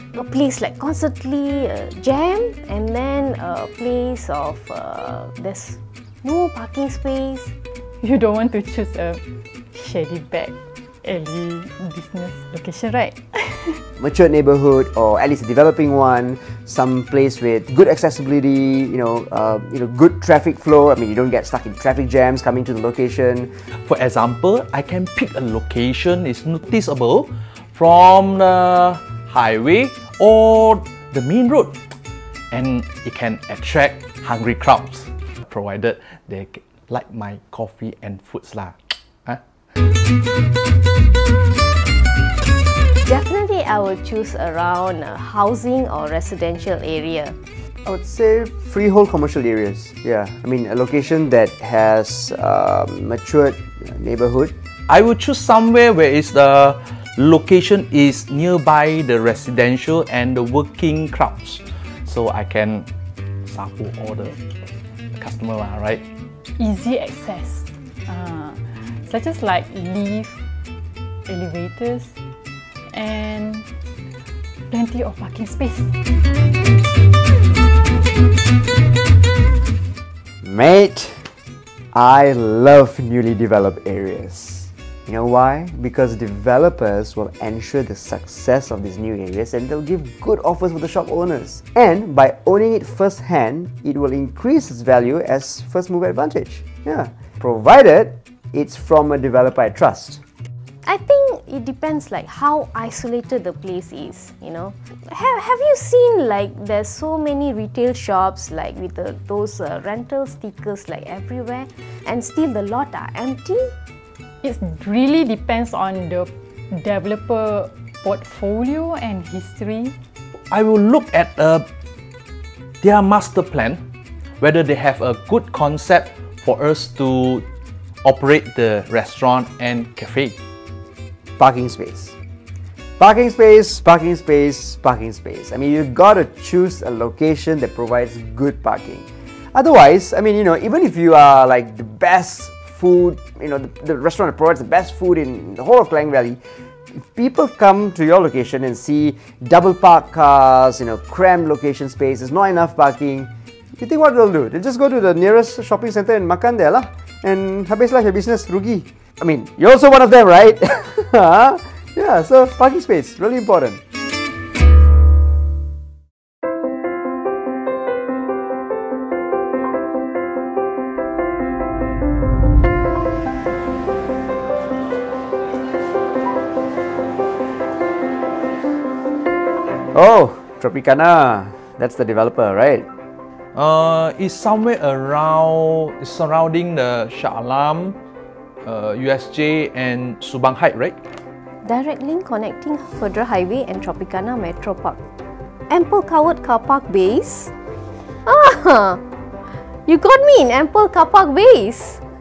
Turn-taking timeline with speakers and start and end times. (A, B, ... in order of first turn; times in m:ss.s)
0:00.1-0:07.5 A
0:08.0-0:13.8 B
0:14.0-0:23.5 C
0:23.7-0:31.8 D
0:32.5-0:39.4 D
0:43.0-0:47.4 A
0:47.8-0:54.5 C
0:54.9-1:02.9 D
1:03.5-1:04.4 D
1:05.1-1:06.0 D
1:06.6-1:10.4 B
1:11.2-1:12.2 B
1:12.9-1:13.7 B
1:14.7-1:16.0 B
1:20.4-1:21.3 C
1:21.9-1:40.2 C
1:40.8-1:53.7 A
1:54.4-2:00.0 B
2:00.5-2:01.6 D
2:02.8-2:03.8 D
2:04.4-2:07.4 D
2:08.0-2:10.4 D
2:11.4-2:12.1 C
2:13.0-2:26.4 C
2:27.0-2:43.8 C
2:59.9-3:02.9 C
3:03.6-3:08.0 D
3:08.6-3:11.0 D
3:11.6-3:15.0 A
3:15.7-3:17.5 A
3:18.3-3:19.0 A
3:19.9-3:22.0 A